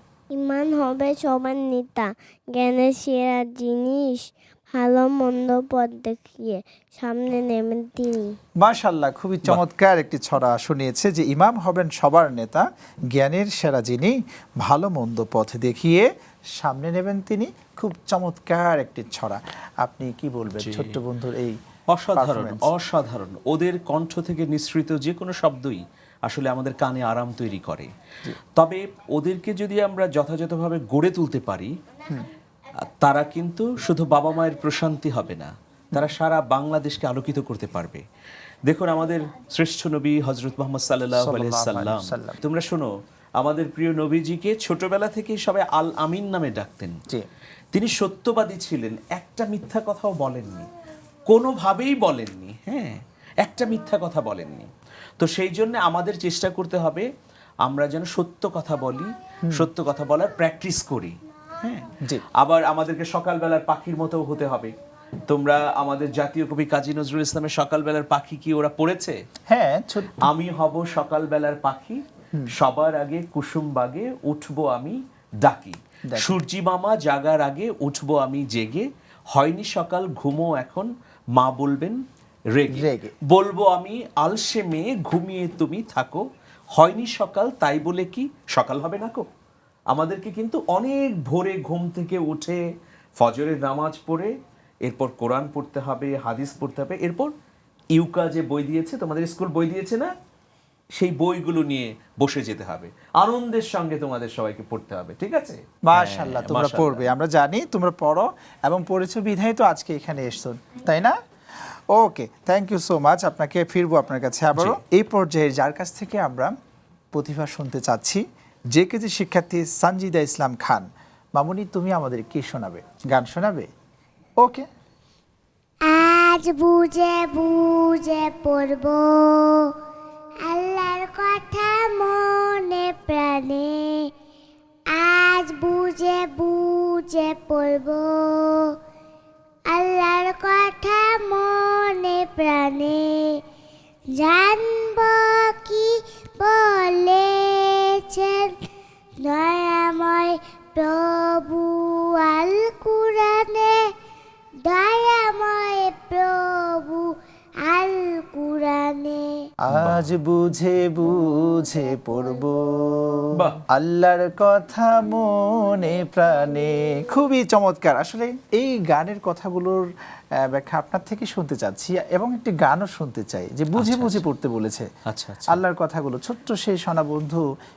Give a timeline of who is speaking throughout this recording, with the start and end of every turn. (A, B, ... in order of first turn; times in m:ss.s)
0:00.3-0:08.4 A
0:08.6-0:21.6 B
0:20.6-0:21.0 C
0:21.9-0:27.9 C
0:22.2-0:22.7 B
0:28.5-0:31.8 C
0:32.8-0:38.0 C
0:38.6-0:47.0 C
0:41.1-0:42.4 B
0:47.7-0:50.7 C
0:51.2-0:57.1 C
0:57.6-1:04.7 C
0:59.4-0:59.7 B
1:02.0-1:02.3 B
1:05.3-1:09.2 C
1:09.5-1:10.2 B
1:10.2-1:12.0 C
1:12.5-1:22.0 C
1:16.1-1:16.4 B
1:22.5-1:26.2 C
1:22.7-1:23.1 B
1:26.7-1:29.2 C
1:29.9-1:32.6 C
1:33.2-1:34.3 C
1:34.8-1:37.3 C
1:37.9-1:40.1 C
1:40.9-1:47.1 C
1:45.8-1:51.2 B
1:51.9-1:56.5 B
1:57.1-2:03.7 B
2:04.4-2:04.7 B
2:05.8-2:09.7 A
2:10.4-2:14.1 A
2:14.9-2:18.8 A
2:19.7-2:23.4 A
2:24.1-2:28.6 A
2:29.2-2:33.9 A
2:34.6-2:39.4 A
2:39.6-2:49.9 B
2:39.7-2:40.1 C
2:43.3-2:43.6 C
2:50.4-2:54.9 B
2:53.8-2:54.2 C
2:55.1-2:55.6 C
2:55.5-2:57.4 B